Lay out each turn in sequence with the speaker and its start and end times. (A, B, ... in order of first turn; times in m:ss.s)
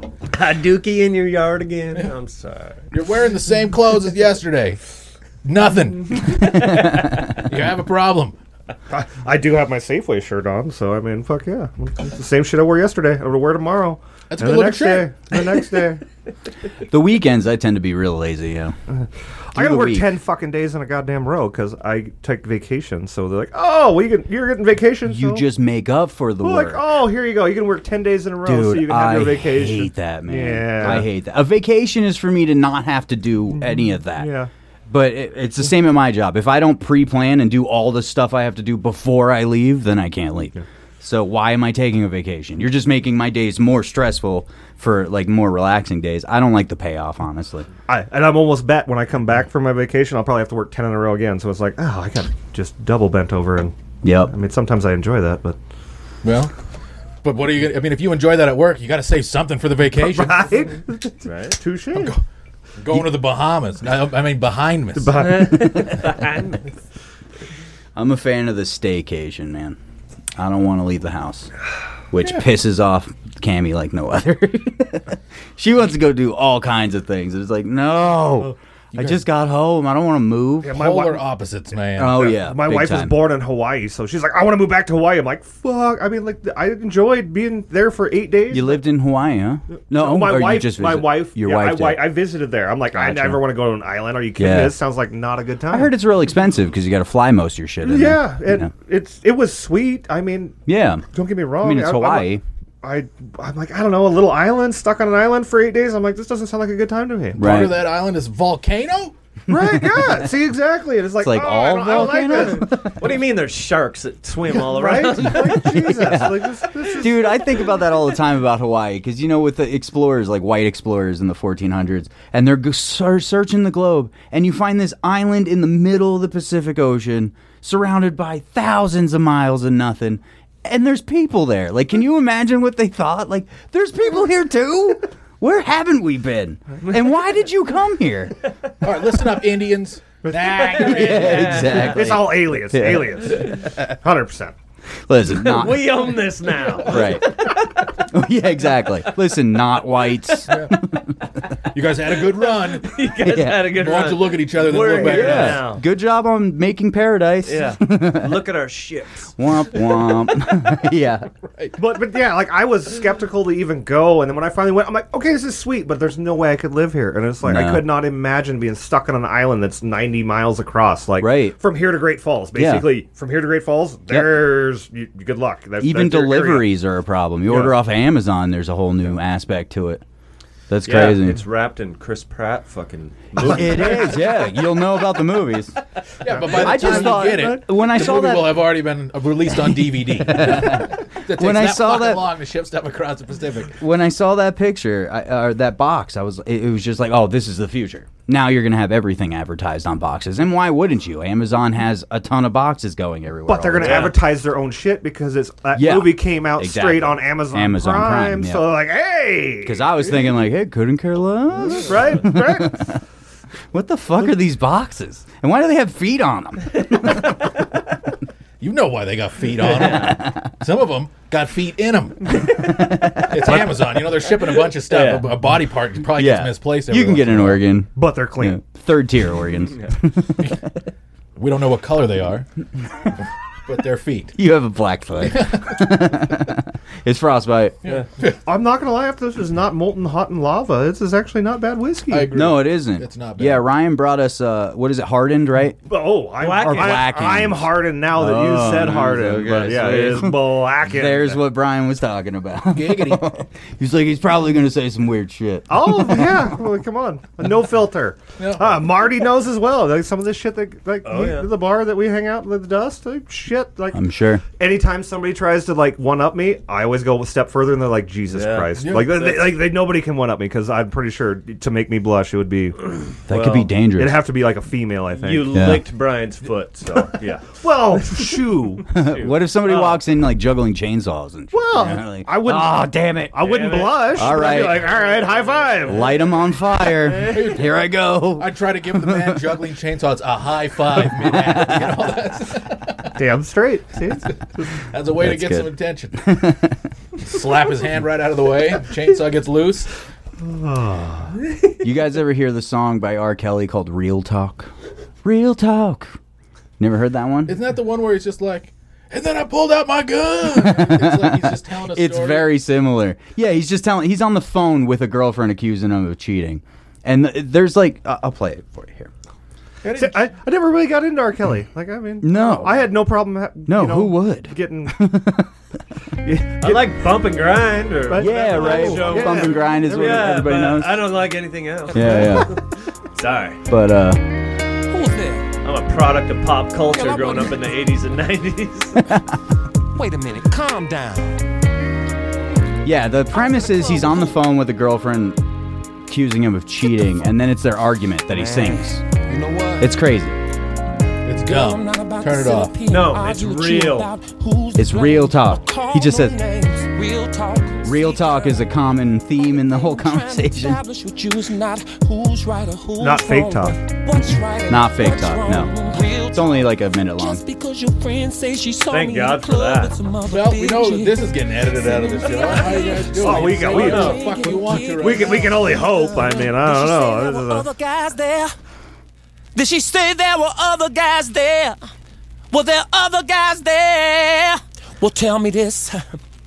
0:00.3-0:02.8 A
0:02.9-0:04.8 B
0:05.4-0:08.3 B
0:06.5-0:06.9 C
0:08.9-0:16.0 D
0:14.3-0:15.1 B
0:16.8-0:18.7 C
0:18.9-0:25.4 D
0:19.5-0:20.1 C
0:25.0-0:26.8 C
0:26.4-0:31.1 D
0:28.4-0:34.3 C
0:33.5-0:34.5 D
0:34.9-0:47.6 C
0:47.9-0:55.6 D
0:54.0-0:54.3 C
0:56.2-0:56.5 B
0:57.2-1:00.5 B
0:59.9-1:02.2 D
1:01.2-1:01.6 A
1:01.9-1:02.2 B
1:02.8-1:05.3 B
1:04.9-1:06.1 D
1:05.3-1:06.6 A
1:08.0-1:09.8 C
1:10.4-1:11.5 C
1:12.1-1:20.8 C
1:18.9-1:19.2 B
1:20.6-1:21.3 D
1:20.7-1:22.3 B
1:22.0-1:23.2 C
1:22.0-1:28.8 D
1:28.5-1:32.1 C
1:29.9-1:35.9 D
1:32.9-1:33.4 C
1:34.4-1:34.7 C
1:35.7-1:38.7 C
1:37.8-1:47.7 D
1:40.7-1:41.0 C
1:41.6-1:42.4 C
1:47.4-1:47.8 C
1:47.4-1:49.1 B
1:49.5-1:52.9 D
1:49.5-1:50.0 C
1:51.2-1:53.0 C
1:52.6-1:55.8 A
1:54.5-1:57.5 D
1:55.8-2:18.4 C
2:18.8-2:22.0 B
2:20.2-2:21.2 D
2:20.7-2:21.8 A
2:20.8-2:23.4 C
2:21.8-2:24.5 D
2:25.1-2:25.9 C
2:25.3-2:27.6 A
2:26.8-2:31.1 C
2:30.5-2:30.8 B
2:31.7-2:33.0 B
2:32.4-2:35.8 A
2:33.2-2:33.7 C
2:33.6-2:35.7 B
2:34.8-2:35.4 D
2:35.0-2:38.4 C
2:37.4-2:39.3 A
2:39.4-2:41.3 C
2:41.5-2:41.8 B
2:41.8-2:56.7 D
2:47.4-2:47.8 C
2:51.2-2:51.6 C
2:52.6-2:52.9 C
2:54.1-2:54.4 C
2:55.8-3:00.0 C
2:57.5-2:57.8 D
3:00.7-3:01.4 C
3:00.8-3:04.3 A
3:03.4-3:05.7 C
3:03.5-3:04.3 B
3:06.2-3:13.8 B
3:06.4-3:07.6 D
3:06.5-3:08.6 C
3:09.9-3:12.2 C
3:13.8-3:24.1 C
3:23.5-3:30.3 D
3:23.8-3:24.2 A
3:25.7-3:28.7 C
3:29.6-3:33.0 C
3:31.6-3:32.9 D
3:33.7-3:37.2 C
3:38.6-3:47.6 B
3:39.6-3:40.2 A
3:40.0-3:40.4 C
3:42.6-3:43.8 C
3:44.8-3:45.3 A
3:46.1-3:50.6 C
3:47.9-3:48.6 D
3:51.4-3:52.5 B
3:53.6-3:54.4 B
3:54.3-3:57.8 C
3:55.3-3:55.8 B
3:57.8-3:58.4 B
3:58.4-4:02.3 D
4:02.1-4:03.7 B
4:02.3-4:05.8 C
4:05.8-4:11.4 D
4:06.4-4:07.1 A
4:06.6-4:16.3 C
4:12.7-4:13.2 B
4:15.7-4:24.0 D
4:18.4-4:18.8 B
4:21.0-4:21.5 A
4:23.9-4:24.4 C
4:24.6-4:32.8 D
4:28.3-4:29.6 A
4:28.8-4:29.1 B
4:33.3-4:34.2 C
4:33.3-4:33.7 A
4:33.9-4:35.6 D
4:35.2-4:38.3 A
4:35.5-4:35.8 C
4:37.5-4:38.8 D
4:38.8-4:40.0 A
4:38.9-4:44.9 C
4:41.5-4:46.1 D
4:43.4-4:45.9 A
4:45.9-4:49.4 C
4:47.2-4:47.7 B
4:48.4-4:53.2 B
4:51.3-4:51.8 C
4:53.1-4:54.7 D
4:54.8-4:56.4 B
4:55.2-4:56.7 C
4:57.2-4:59.9 B
5:00.4-5:01.4 D
5:01.8-5:04.7 C
5:05.2-5:06.1 C
5:06.8-5:07.6 C
5:07.5-5:12.5 B
5:10.5-5:19.1 C
5:19.8-5:20.2 B
5:19.9-5:25.1 D
5:22.2-5:22.8 C
5:23.6-5:25.5 C
5:26.2-5:27.0 D
5:26.6-5:33.6 A
5:28.1-5:30.1 D
5:28.2-5:31.1 C
5:31.9-5:32.6 C
5:31.9-5:32.4 E
5:33.7-5:34.2 C
5:34.9-5:35.5 E
5:35.6-5:39.0 A
5:36.8-5:37.8 E
5:39.0-5:39.3 C
5:39.9-5:41.4 E
5:42.8-5:45.4 C
5:43.3-5:44.4 E
5:46.1-5:49.0 C
5:48.3-5:49.9 E
5:49.8-5:50.4 C
5:51.2-5:52.7 B
5:51.4-5:58.7 E
5:52.9-5:54.1 A
5:54.8-5:56.4 C
5:57.8-6:00.8 C
5:59.4-6:18.5 E
6:03.0-6:03.8 D
6:04.7-6:05.7 C
6:06.3-6:07.4 C
6:08.9-6:09.9 A
6:10.3-6:15.6 B
6:13.2-6:14.2 D
6:13.7-6:14.2 A
6:15.0-6:17.7 D
6:19.5-6:21.8 E
6:22.5-6:26.2 E